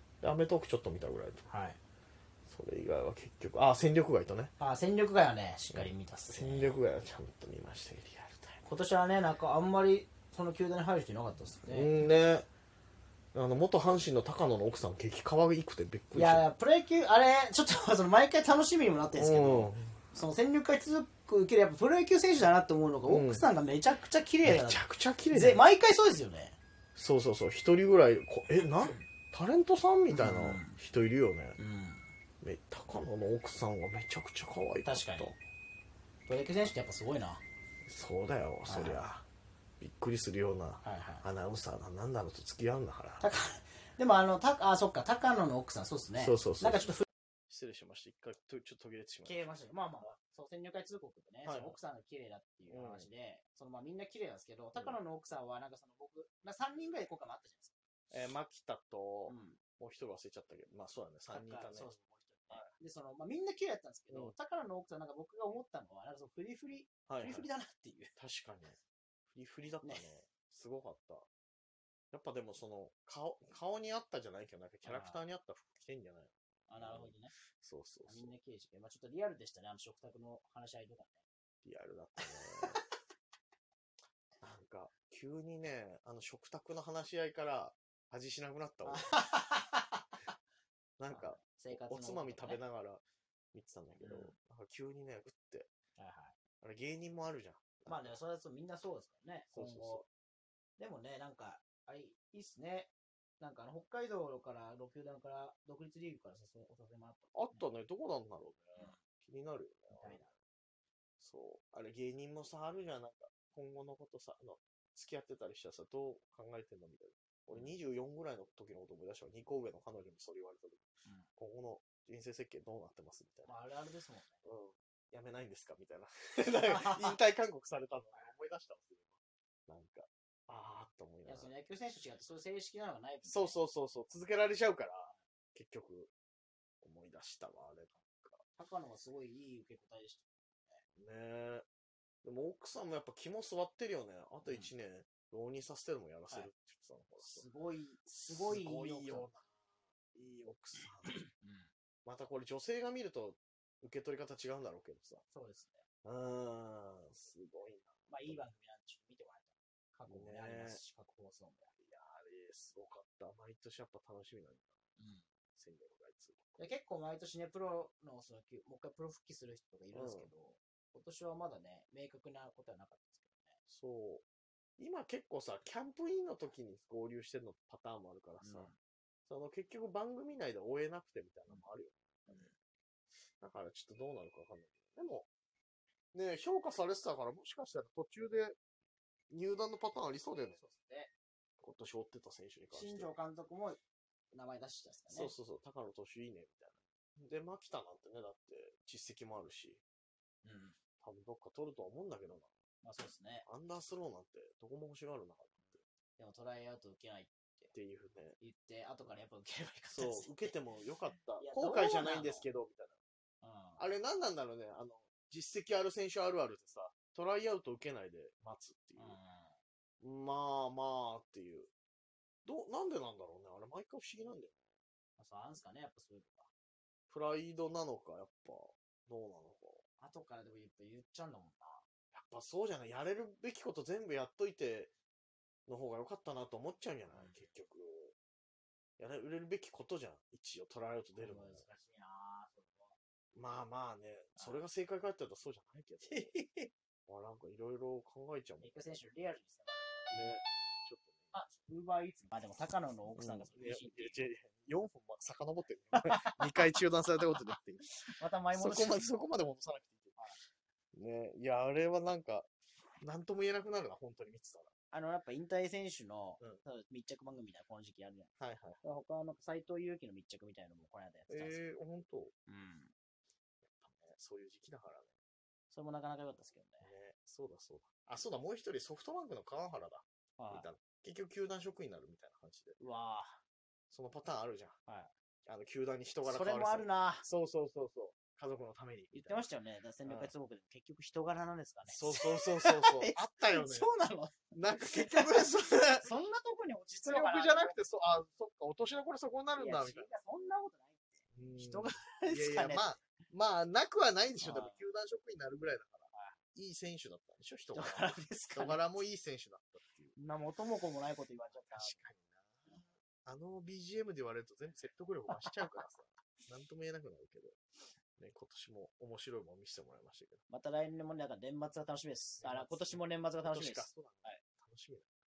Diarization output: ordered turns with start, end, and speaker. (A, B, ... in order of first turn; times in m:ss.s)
0:00.2-0:01.4 A
0:01.5-0:01.8 B
0:02.5-0:04.5 A
0:04.6-0:06.7 B
0:05.7-0:08.6 A
0:08.6-0:11.9 B
0:11.7-0:12.4 A
0:13.3-0:16.4 A
0:16.1-0:26.6 B
0:19.1-0:20.0 A
0:23.1-0:23.4 A
0:24.4-0:25.6 A
0:27.0-0:31.6 A
0:30.1-0:30.8 B
0:31.6-0:32.0 B
0:32.4-0:35.4 A
0:34.8-0:35.3 B
0:36.3-0:37.4 B
0:37.8-0:39.2 A
0:38.7-0:39.0 B
0:39.8-0:43.2 A
0:40.8-0:41.2 B
0:43.2-0:47.0 B
0:46.2-0:47.0 A
0:47.5-0:49.5 A
0:49.2-0:57.7 B
0:51.4-0:51.8 A
0:52.7-0:53.1 A
0:58.1-1:01.9 A
0:59.3-0:59.6 B
1:01.3-1:08.1 B
1:04.1-1:04.3 A
1:07.1-1:07.5 A
1:08.1-1:08.8 A
1:09.3-1:11.3 A
1:09.8-1:10.1 B
1:12.1-1:18.3 A
1:14.8-1:15.2 B
1:16.7-1:17.3 B
1:18.1-1:21.2 B
1:21.6-1:22.8 A
1:22.4-1:22.7 B
1:24.4-1:29.2 A
1:28.8-1:30.0 B
1:31.0-1:33.0 A
1:31.1-1:32.6 B
1:33.5-1:35.7 A
1:34.0-1:34.3 B
1:36.0-1:36.3 B
1:36.6-1:38.2 A
1:37.9-1:40.0 B
1:39.5-1:40.0 A
1:40.8-1:47.6 B
1:47.3-1:50.2 A
1:49.9-1:50.3 B
1:51.2-2:00.8 A
2:01.4-2:03.5 A
2:03.4-2:04.4 B
2:04.4-2:09.2 A
2:06.6-2:07.2 B
2:09.7-2:11.5 A
2:11.2-2:13.6 B
2:13.2-2:16.1 A
2:16.8-2:18.4 A
2:18.6-2:20.8 B
2:21.0-2:21.6 A
2:22.2-2:27.4 A
2:24.4-2:24.7 B
2:27.2-2:29.3 B
2:28.1-2:29.6 A
2:30.1-2:31.2 A
2:31.4-2:31.7 B
2:32.0-2:35.2 A
2:35.3-2:35.8 B
2:36.0-2:38.4 A
2:38.1-2:41.7 B
2:40.1-2:40.8 A
2:41.8-2:44.8 A
2:45.0-2:45.2 B
2:45.5-2:46.6 A
2:46.6-2:53.6 B
2:49.9-2:50.3 A
2:53.7-2:54.2 A
2:54.8-2:58.7 A
2:58.4-2:58.8 B
2:59.3-3:02.5 A
3:02.3-3:02.5 B
3:03.4-3:05.3 A
3:06.1-3:08.6 A
3:09.3-3:10.6 A
3:10.5-3:11.1 B
3:11.6-3:13.1 A
3:12.7-3:13.8 B
3:14.3-3:15.3 B
3:15.1-3:19.8 A
3:20.4-3:20.8 B
3:21.0-3:22.5 A
3:22.8-3:23.4 B
3:23.4-3:25.8 A
3:26.2-3:27.7 B
3:27.7-3:28.4 A
3:28.4-3:30.5 B
3:29.9-3:33.0 A
3:31.4-3:32.5 B
3:33.4-3:33.8 B
3:33.8-3:39.2 A
3:39.0-3:39.6 B
3:40.0-3:41.7 A
3:42.4-3:44.6 A
3:45.2-3:46.5 B
3:47.1-3:49.8 A
3:50.0-3:51.8 B
3:52.1-3:54.9 A
3:55.7-3:58.1 A
3:57.1-3:57.4 B
3:59.0-4:01.6 A
4:01.1-4:03.0 B
4:03.3-4:06.3 A
4:06.0-4:06.7 B
4:07.1-4:09.0 A
4:08.6-4:10.4 B
4:10.1-4:11.2 A
4:11.3-4:14.2 B
4:13.1-4:20.2 A
4:15.9-4:16.5 B
4:18.1-4:19.0 B
4:20.9-4:22.5 A
4:23.0-4:24.7 A
4:24.9-4:28.3 B
4:28.4-4:28.8 A
4:28.8-4:31.6 B
4:31.3-4:32.3 A
4:32.5-4:32.9 B
4:33.6-4:35.1 A
4:35.7-4:36.9 B
4:36.8-4:42.8 A
4:40.4-4:40.7 B
4:42.8-4:43.4 B
4:43.9-4:44.8 A
4:45.4-4:49.4 A
4:46.2-4:47.2 B
4:49.1-4:57.8 B
4:50.0-4:50.3 A
4:51.9-4:53.9 A
4:54.6-4:56.1 A
4:57.0-5:00.1 A
4:59.5-5:03.0 B
5:01.3-5:10.1 A
5:04.4-5:04.8 B
5:06.1-5:06.4 B
5:07.7-5:08.8 B
5:10.2-5:12.0 B
5:11.7-5:17.6 A
5:15.3-5:15.9 B
5:18.2-5:20.4 A
5:20.5-5:24.4 B
5:22.4-5:25.1 A